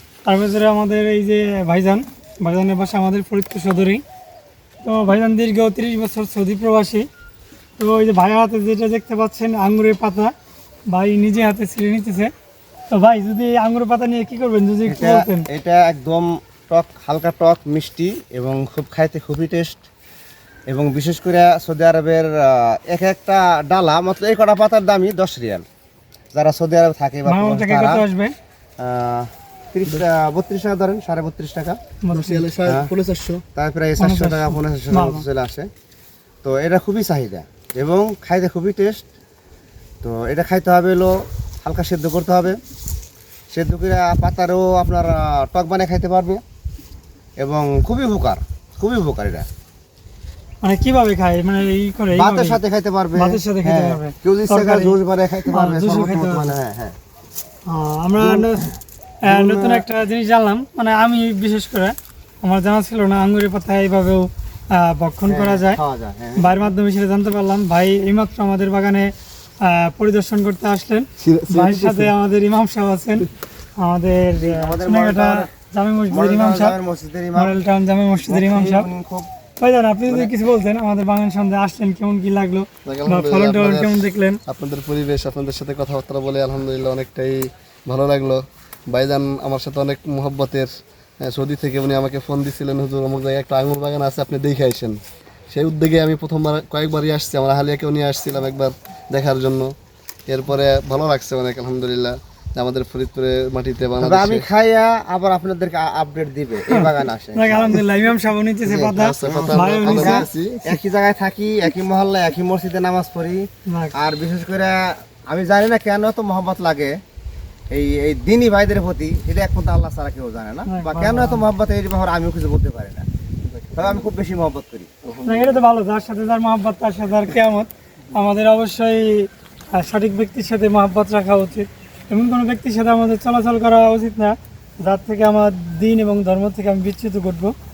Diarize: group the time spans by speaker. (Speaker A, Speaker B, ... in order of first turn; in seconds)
Speaker A: 0.2-4.0, 4.8-7.1, 7.8-10.3, 10.9-12.3, 12.9-15.5, 27.3-28.3, 32.0-32.4, 34.0-35.2, 50.6-52.6, 53.2-55.0, 55.5-56.6, 57.7-58.7, 59.2-65.8, 66.4-76.8, 77.3-78.9, 79.6-84.4, 106.7-110.3, 113.7-113.9, 120.7-121.5, 125.2-137.6
Speaker B: 14.9-19.8, 20.7-25.6, 26.3-28.1, 28.8-31.8, 32.7-32.9, 33.5-35.7, 36.4-39.0, 40.0-42.6, 43.5-46.4, 47.4-49.5, 52.1-57.0, 58.2-58.5, 59.3-59.9, 65.3-66.7, 74.3-75.5, 76.1-77.6, 78.3-79.3, 104.0-107.8, 108.6-117.0, 117.7-123.1, 123.8-124.9
Speaker C: 32.1-33.4, 71.2-72.1, 82.8-90.7, 91.2-95.0, 95.5-99.7, 100.3-104.5, 109.0-110.8, 123.5-124.1, 125.0-125.6